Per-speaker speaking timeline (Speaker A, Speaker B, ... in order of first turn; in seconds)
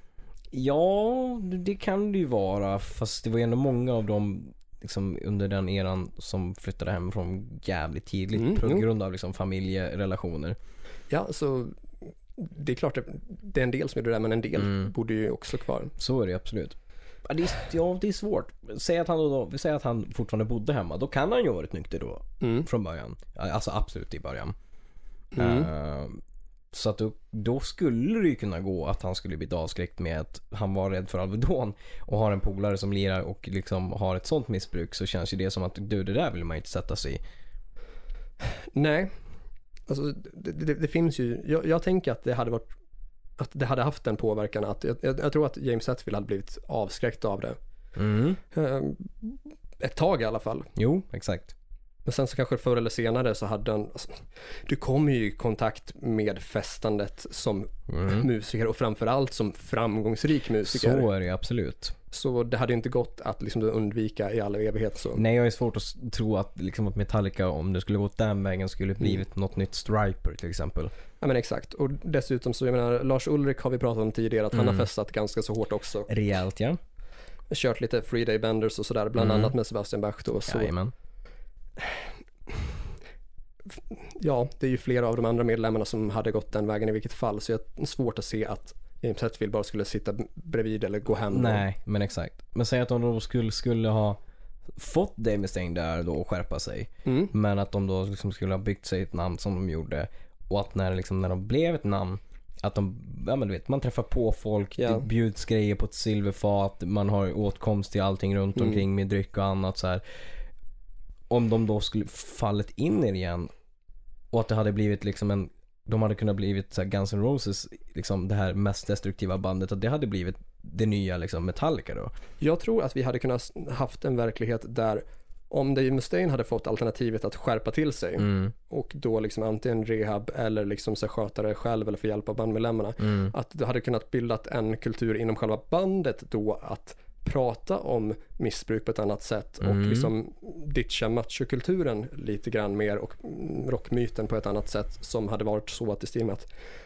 Speaker A: 0.5-10.6, 14.6-14.9, 16.0-24.5, 25.4-26.2, 26.7-37.2, 48.0-48.4, 50.8-51.5, 57.9-58.2, 60.6-61.9, 65.1-70.9, 74.5-74.8, 76.1-76.8, 79.2-79.5, 80.5-80.9, 91.3-94.2, 94.8-110.0, 111.3-113.5, 114.3-122.1, 128.2-128.5, 133.0-133.3, 139.6-140.1
Speaker B: 8.3-8.8, 11.1-11.8, 12.4-15.9, 22.4-22.7, 25.3-25.7, 38.7-39.1, 39.9-42.7, 43.4-47.6, 48.5-50.7, 52.0-61.1, 62.1-65.2, 71.2-76.1, 77.5-80.7, 81.8-82.7, 83.9-91.6, 97.0-97.3, 104.8-105.0, 122.4-146.5